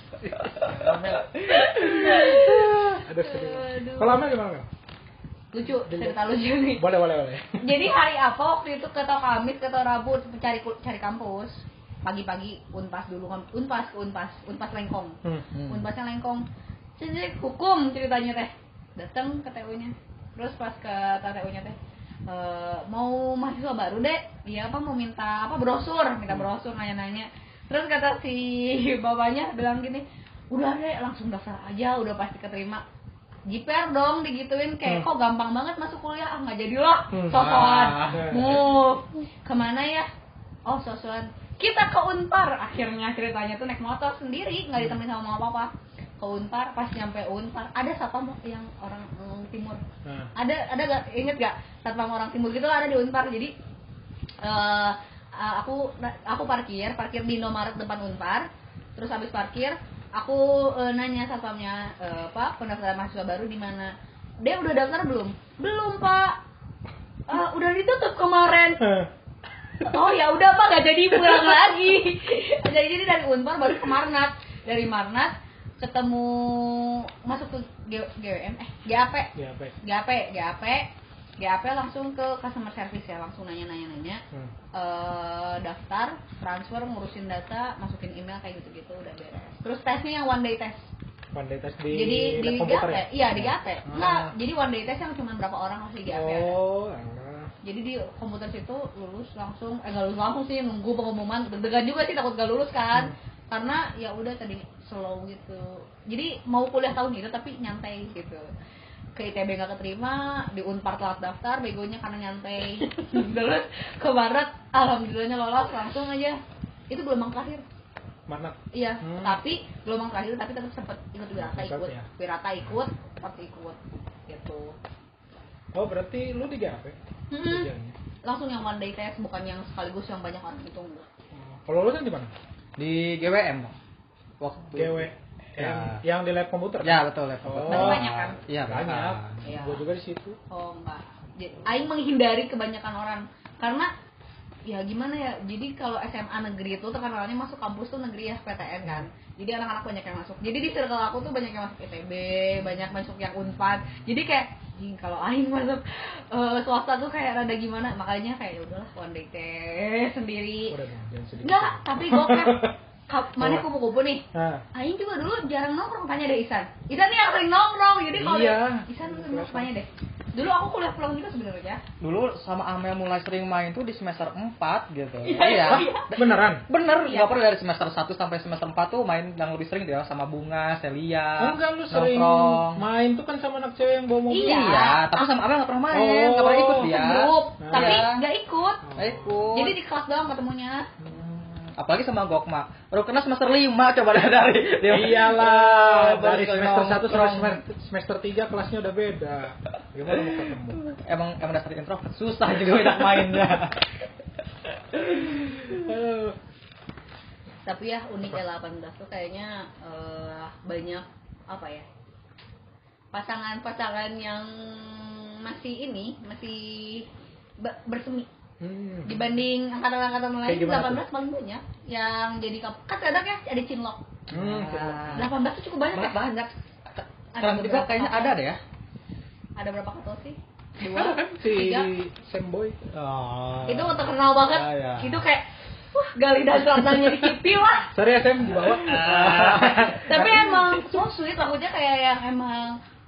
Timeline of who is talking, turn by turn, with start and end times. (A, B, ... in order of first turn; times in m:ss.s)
0:00.2-0:01.2 A
0:00.4-0:02.5 B
0:01.5-0:04.2 C
0:02.0-0:04.7 A
0:05.5-0:06.9 C
0:05.8-0:06.2 A
0:06.8-0:07.8 A
0:07.6-0:16.4 C
0:15.5-0:15.9 B
0:17.0-0:32.8 C
0:33.4-0:40.1 C
0:37.1-0:37.5 A
0:37.3-0:38.3 B
0:38.0-0:38.6 A
0:40.6-0:49.8 C
0:50.0-0:50.3 A
0:50.3-0:53.5 C
0:54.4-1:06.4 C
1:07.3-1:09.0 C
1:08.8-1:09.1 A
1:09.8-1:19.3 C
1:19.4-1:19.7 A
1:19.8-1:24.2 C
1:24.7-1:30.9 C
1:31.3-1:34.3 A
1:31.9-1:36.6 C
1:36.1-1:37.5 A
1:37.6-1:48.5 C
1:49.2-1:56.4 C
1:56.9-1:57.6 C
1:58.3-1:59.4 A
1:58.7-2:04.8 C
2:01.4-2:02.1 A
2:05.7-2:07.9 A
2:07.3-2:07.7 C
2:08.2-2:11.1 C
2:11.3-2:12.3 A
2:12.8-2:13.7 B
2:14.4-2:16.0 B
2:14.7-2:18.1 A
2:16.8-2:19.4 B
2:17.7-2:18.4 C
2:18.6-2:20.4 A
2:19.4-2:19.8 C
2:20.5-2:23.9 C
2:24.6-2:40.8 C
2:40.7-2:42.7 A
2:41.4-2:51.8 C
2:43.4-2:43.6 A
2:44.3-2:44.6 A
2:48.1-2:49.7 A
2:52.0-3:02.8 B
2:55.2-2:56.1 C
2:55.5-2:56.6 A
3:01.4-3:04.6 A
3:04.3-3:05.3 C
3:04.4-3:08.2 B
3:05.9-3:07.0 A
3:06.8-3:08.8 C
3:07.6-3:08.0 A
3:08.8-3:09.5 A
3:09.0-3:09.8 B
3:09.5-3:10.9 C
3:11.0-3:17.6 B
3:14.8-3:20.9 A
3:20.9-3:23.8 B
3:25.2-3:26.4 A
3:27.6-3:31.9 C
3:33.1-3:37.1 C
3:37.6-3:38.3 C
3:38.6-3:39.2 A
3:39.0-3:44.1 C
3:40.4-3:41.0 A
3:44.3-3:45.2 A
3:44.3-3:45.3 B
3:45.1-3:46.2 C
3:45.9-3:48.6 B
3:47.3-3:48.4 C
3:49.6-3:51.9 C
3:50.8-3:52.8 A
3:52.9-3:55.2 B
3:53.6-3:57.9 C
3:57.9-4:00.8 A
3:58.6-4:00.0 B
4:00.1-4:02.8 C